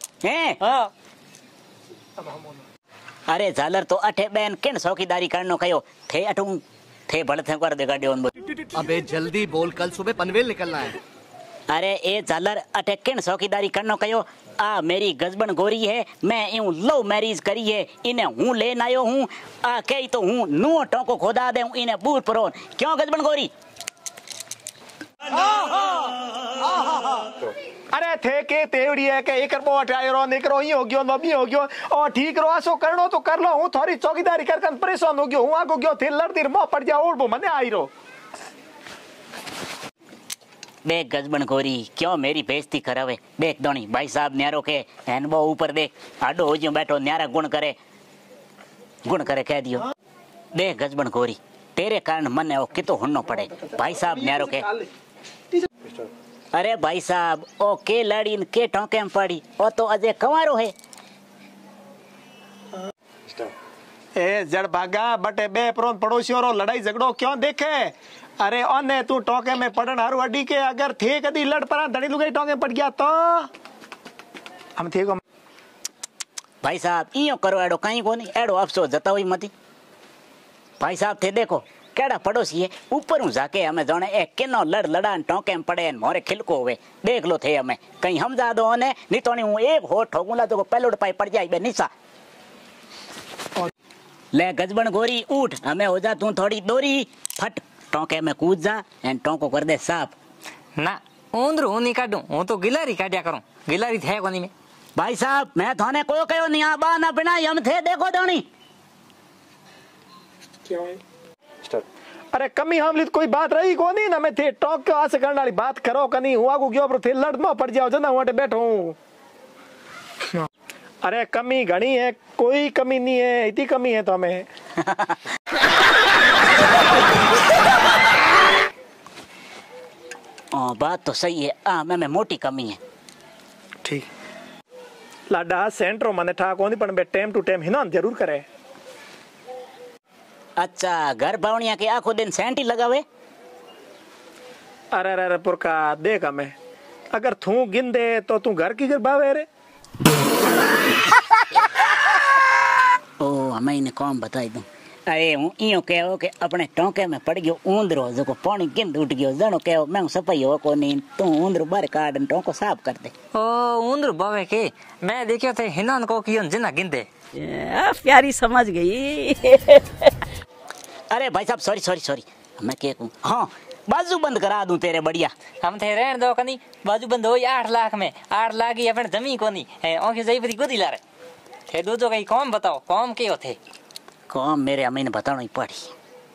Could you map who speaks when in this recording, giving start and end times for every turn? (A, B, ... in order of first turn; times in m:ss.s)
0:00.2-0:00.6 A
0:00.6-0:00.9 B
0:03.3-0:08.3 A
0:08.7-0:10.9 C
0:11.7-0:23.5 A
0:25.3-0:27.1 D
0:27.9-0:37.9 D
0:40.8-0:47.8 A
0:49.0-0:49.9 A
0:50.5-0:54.7 A
0:56.5-1:00.7 A
1:04.2-1:13.5 D
1:14.8-1:15.2 D
1:16.6-1:19.5 A
1:20.8-1:31.9 A
1:34.3-1:40.1 A
1:40.8-1:44.5 B
1:45.0-1:48.4 A
1:50.7-1:51.0 D
1:52.3-1:59.0 D
2:01.0-2:04.4 D
2:04.9-2:05.1 A
2:10.5-2:12.8 A
2:15.3-2:18.4 D
2:20.6-2:23.0 A
2:24.9-2:26.5 D
2:27.1-2:29.4 D
2:33.2-2:43.1 A
2:43.3-2:47.1 B
2:47.3-2:50.2 E
2:51.1-2:55.3 A
2:55.6-3:01.0 B
3:01.7-3:03.6 B
3:04.3-3:05.9 A